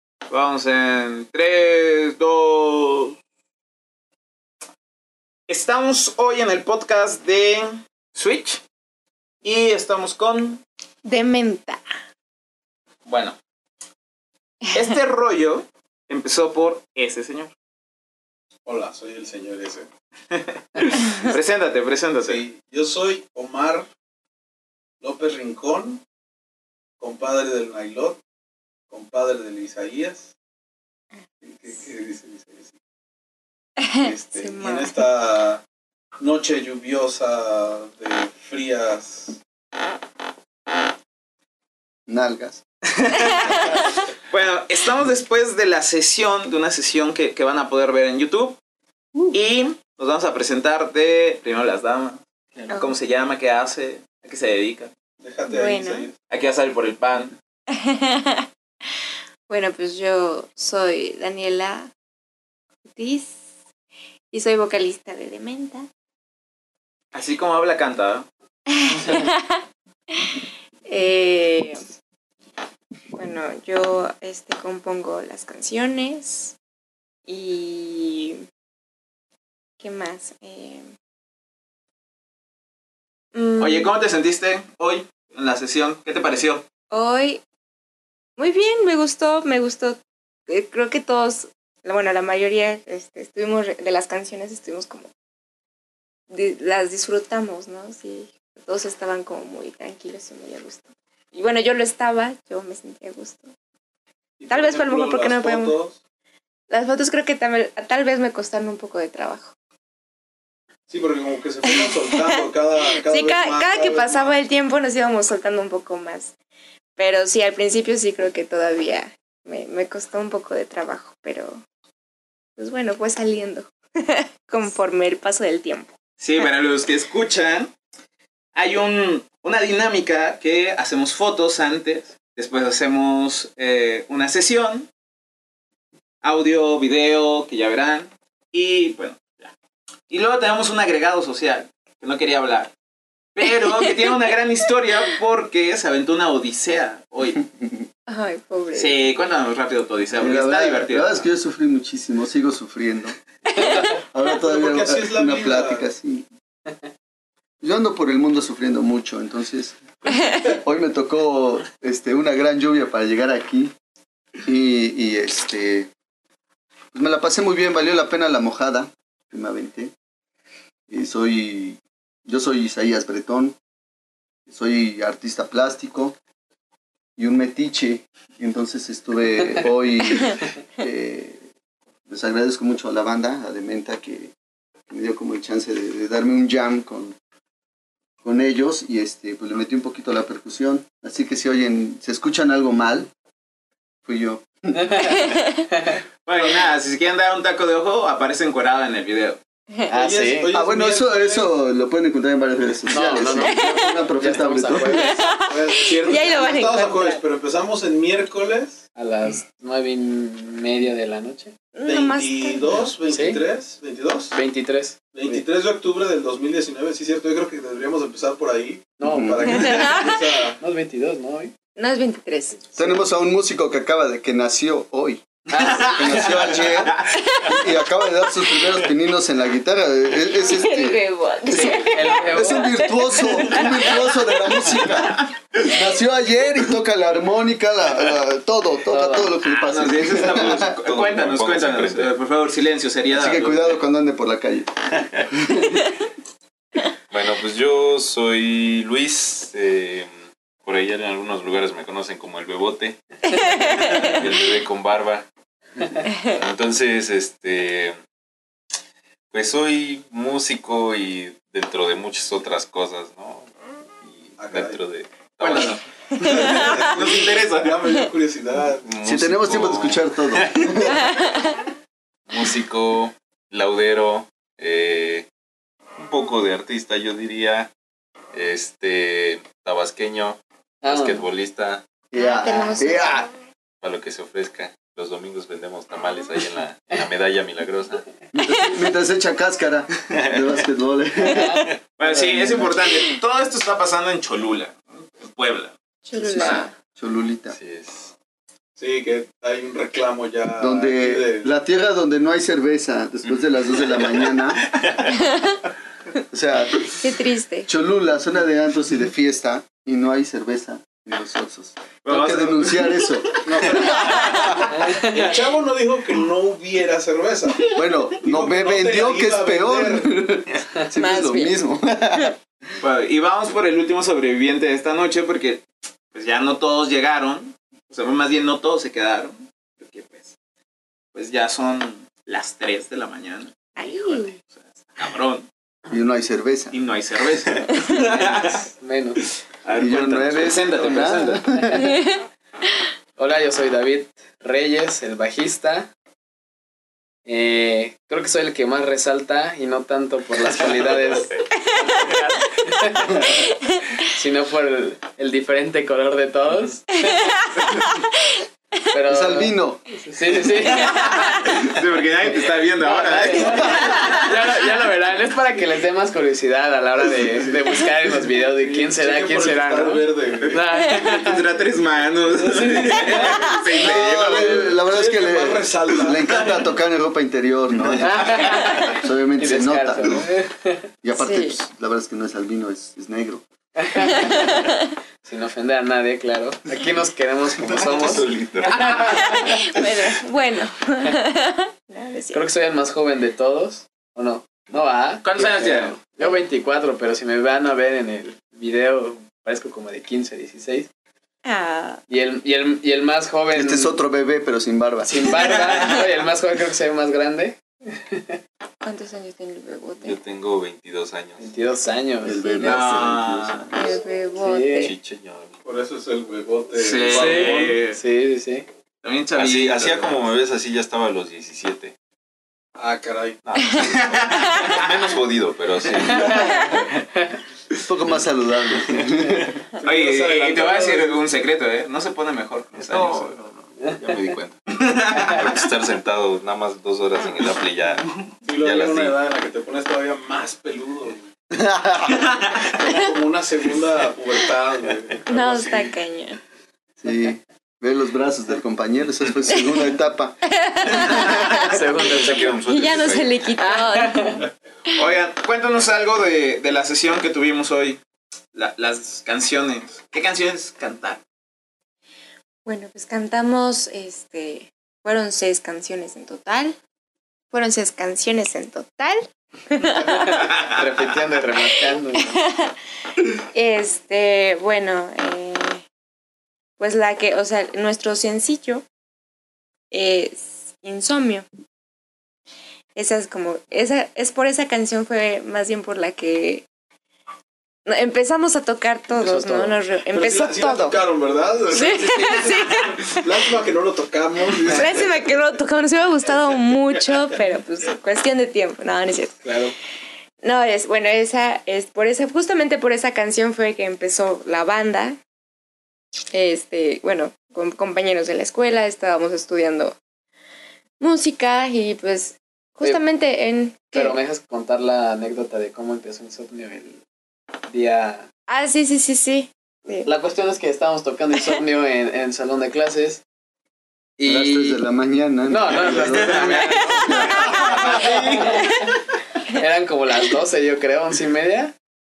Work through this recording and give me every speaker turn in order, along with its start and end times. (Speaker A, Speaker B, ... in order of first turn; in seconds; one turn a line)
Speaker A: 0.3-3.1
Speaker A: 5.5-8.6
Speaker A: 9.4-10.6
Speaker B: 11.0-11.8
Speaker A: 13.1-13.4
Speaker A: 14.7-17.5
Speaker C: 18.6-19.9
Speaker A: 20.3-22.4
Speaker B: 21.1-21.3
Speaker C: 22.3-23.9
Speaker C: 25.0-26.0
Speaker C: 27.0-28.2
Speaker C: 28.9-30.3
Speaker C: 31.4-32.7
Speaker B: 33.8-35.0
Speaker C: 33.9-35.6
Speaker C: 36.2-39.4
Speaker D: 42.1-42.6
Speaker A: 42.9-48.6
Speaker A: 49.3-52.2
Speaker E: 52.5-52.8
Speaker A: 52.8-54.9
Speaker C: 55.2-56.1
Speaker B: 55.5-56.1
Speaker A: 56.2-57.4
Speaker B: 57.7-58.5
Speaker B: 59.5-61.9
Speaker B: 62.9-63.4
Speaker B: 64.3-65.9
Speaker A: 67.1-68.3
Speaker B: 68.7-69.6
Speaker B: 70.9-71.8
Speaker B: 73.1-76.5
Speaker B: 77.3-78.4
Speaker B: 79.8-80.9
Speaker B: 83.3-83.9
Speaker A: 83.6-86.6
Speaker B: 86.9-87.4
Speaker B: 88.4-95.1
Speaker B: 96.3-103.5
Speaker C: 104.4-106.0
Speaker B: 104.5-105.7
Speaker B: 106.7-109.5
Speaker C: 110.9-114.3
Speaker B: 111.8-112.4
Speaker B: 112.9-116.3
Speaker B: 117.0-121.6
Speaker B: 122.6-125.9
Speaker A: 126.2-127.7
Speaker A: 128.5-134.9
Speaker A: 136.2-139.5
Speaker A: 140.1-142.7
Speaker A: 143.3-147.4
Speaker D: 147.3-147.9
Speaker B: 148.1-149.0
Speaker A: 148.7-151.3
Speaker D: 150.2-153.2
Speaker D: 153.9-156.3
Speaker C: 154.3-155.8
Speaker D: 157.6-159.8
Speaker D: 160.4-163.7
Speaker D: 164.4-165.9
Speaker D: 166.9-169.9
Speaker D: 170.9-173.6
Speaker D: 174.5-176.2
Speaker D: 177.2-181.4
Speaker D: 182.1-184.3
Speaker D: 184.9-187.2
Speaker D: 188.2-193.1
Speaker D: 194.0-194.9
Speaker E: 194.7-196.0
Speaker B: 195.1-195.6
Speaker A: 196.2-199.4
Speaker E: 199.9-200.5
Speaker C: 199.9-201.5
Speaker D: 200.5-205.1
Speaker E: 202.9-205.3
Speaker B: 203.2-204.0
Speaker B: 204.9-207.2
Speaker C: 205.4-208.8
Speaker E: 208.9-211.5
Speaker B: 211.7-212.8
Speaker C: 211.8-214.3
Speaker E: 213.1-213.4
Speaker E: 214.3-215.4
Speaker C: 215.1-220.6
Speaker E: 219.0-221.5
Speaker D: 219.1-219.7
Speaker B: 219.5-220.2
Speaker B: 221.8-222.6
Speaker E: 222.6-223.0
Speaker D: 222.8-240.7
Speaker E: 225.5-226.3
Speaker A: 225.5-227.2
Speaker B: 227.1-227.7
Speaker B: 230.3-234.4
Speaker E: 231.8-232.9
Speaker E: 238.9-239.3
Speaker A: 239.4-243.8
Speaker F: 240.2-242.1
Speaker D: 243.1-244.7
Speaker F: 244.9-245.3
Speaker D: 245.3-245.7
Speaker F: 247.1-250.1
Speaker F: 250.6-255.3
Speaker B: 253.5-254.1
Speaker F: 256.3-258.0
Speaker F: 259.3-265.8
Speaker C: 264.4-264.8
Speaker A: 265.4-267.8
Speaker B: 266.3-266.9
Speaker C: 266.4-268.9
Speaker F: 268.8-270.7
Speaker D: 269.0-271.1
Speaker B: 271.0-271.5
Speaker F: 272.3-275.3
Speaker F: 276.0-277.7
Speaker F: 278.3-281.8
Speaker E: 280.8-281.2
Speaker D: 282.1-283.3
Speaker B: 282.1-283.2
Speaker F: 283.8-288.0
Speaker D: 288.3-291.7
Speaker F: 290.1-290.4
Speaker E: 291.2-292.6
Speaker A: 292.0-295.7
Speaker B: 292.9-293.1
Speaker B: 296.1-296.7
Speaker D: 296.1-297.6
Speaker F: 297.5-298.1
Speaker C: 298.8-301.5
Speaker D: 300.6-304.7
Speaker F: 303.9-305.1
Speaker B: 305.1-305.6
Speaker D: 306.3-306.9
Speaker B: 306.9-307.7
Speaker D: 307.6-314.4
Speaker A: 312.0-314.5
Speaker C: 313.4-320.1
Speaker E: 314.8-315.1
Speaker D: 317.7-322.4
Speaker B: 320.9-321.6
Speaker A: 322.8-330.3
Speaker A: 331.1-335.5
Speaker B: 333.8-334.3
Speaker D: 335.9-336.8
Speaker A: 336.7-338.6
Speaker E: 338.8-339.2
Speaker A: 339.6-341.4
Speaker D: 339.7-342.0
Speaker B: 341.8-342.1
Speaker E: 343.2-345.9
Speaker E: 347.2-353.5
Speaker B: 353.3-353.8
Speaker E: 354.1-357.3
Speaker B: 357.1-358.1
Speaker E: 358.9-361.1
Speaker D: 359.1-359.8
Speaker A: 360.6-364.3
Speaker B: 361.0-361.3
Speaker E: 362.8-371.4
Speaker C: 368.4-370.6
Speaker A: 370.8-374.7
Speaker E: 372.4-373.5
Speaker D: 373.8-380.3
Speaker C: 374.2-376.6
Speaker E: 378.0-380.9
Speaker D: 381.0-383.4
Speaker B: 381.1-381.6
Speaker E: 383.8-384.6
Speaker E: 385.2-389.6
Speaker F: 387.6-389.3
Speaker B: 389.2-392.4
Speaker E: 392.3-400.9
Speaker A: 395.2-396.0
Speaker B: 401.4-402.0
Speaker E: 402.1-404.0
Speaker D: 403.5-405.5
Speaker E: 405.0-408.4
Speaker B: 408.8-410.2
Speaker F: 410.0-411.5
Speaker E: 411.4-412.4
Speaker D: 412.2-414.0
Speaker B: 412.3-413.1
Speaker A: 412.6-413.7
Speaker B: 413.7-414.9
Speaker E: 414.4-414.9
Speaker F: 414.8-415.5
Speaker C: 415.6-417.8
Speaker A: 416.8-418.0
Speaker E: 417.1-418.6
Speaker A: 419.0-420.2
Speaker F: 419.3-421.9
Speaker C: 422.8-423.5
Speaker F: 423.5-426.8
Speaker A: 423.6-424.9
Speaker E: 426.1-427.3
Speaker D: 427.9-429.6
Speaker C: 429.8-431.2
Speaker A: 429.8-433.3
Speaker F: 432.8-439.1
Speaker A: 434.8-435.5
Speaker C: 438.4-441.2
Speaker D: 441.5-442.2
Speaker A: 442.1-442.7
Speaker C: 442.7-445.9
Speaker B: 445.3-446.4
Speaker D: 447.0-451.4
Speaker B: 449.6-449.8
Speaker B: 450.5-451.8
Speaker E: 451.6-452.6
Speaker F: 451.9-453.5
Speaker B: 452.6-454.5
Speaker E: 453.6-454.4
Speaker A: 454.9-458.0
Speaker A: 458.5-461.2
Speaker B: 462.6-466.8
Speaker B: 467.5-470.6
Speaker E: 470.0-472.3
Speaker B: 472.2-472.7
Speaker B: 473.4-475.8
Speaker B: 476.8-478.8
Speaker B: 479.9-481.4
Speaker B: 482.9-486.6
Speaker B: 487.9-491.0
Speaker E: 489.1-489.8
Speaker C: 490.1-495.2
Speaker B: 491.7-493.5
Speaker B: 494.6-499.4
Speaker E: 499.4-499.7
Speaker B: 500.4-505.2
Speaker B: 506.3-509.9
Speaker B: 511.0-514.2
Speaker E: 513.9-517.0
Speaker E: 517.7-518.3
Speaker B: 518.5-520.1
Speaker E: 520.0-523.2
Speaker E: 524.2-524.8
Speaker D: 524.2-527.7
Speaker E: 525.5-528.8
Speaker A: 526.0-526.6
Speaker B: 526.9-528.1
Speaker A: 527.3-528.7
Speaker E: 529.5-531.7